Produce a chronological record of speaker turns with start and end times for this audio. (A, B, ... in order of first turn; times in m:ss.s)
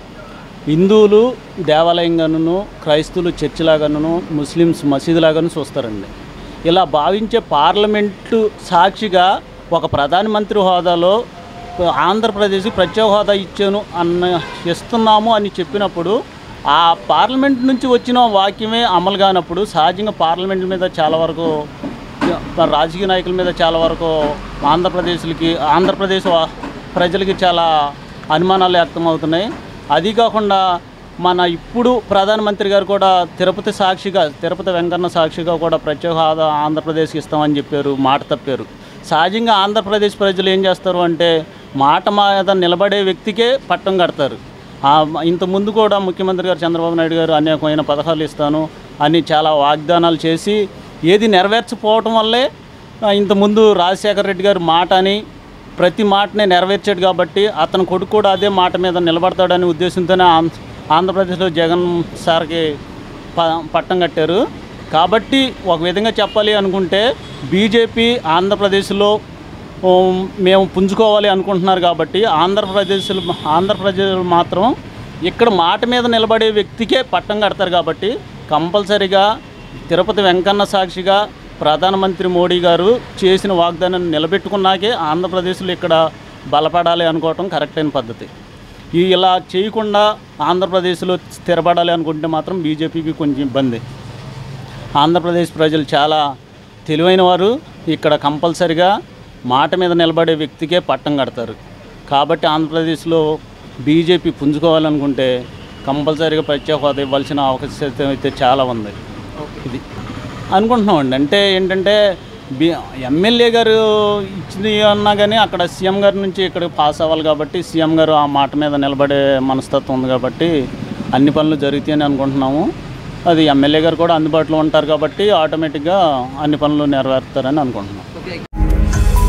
0:00.7-0:06.1 A
0:06.7-0:11.2 A
0:11.8-0:16.1 A
0:16.7-0:21.5 A
0:22.2-0:27.7 A
0:28.3-0:30.6 A
0:31.2-0:52.5 A
0:53.1-0:55.2 A
0:55.8-1:02.6 A
1:03.4-1:04.4 A
1:04.9-1:09.1 A
1:09.8-1:14.7 A
1:15.3-1:19.3 A
1:19.9-1:26.0 A
1:26.5-1:28.3 A
1:28.9-1:33.8 A
1:35.0-1:36.2 A
1:36.9-1:38.9 A
1:39.5-1:43.2 A
1:43.8-1:45.3 A
1:45.8-1:49.0 A
1:49.5-1:49.8 A
1:50.5-1:52.0 A
1:52.5-2:00.5 A
2:01.1-2:02.7 A
2:03.3-2:08.1 A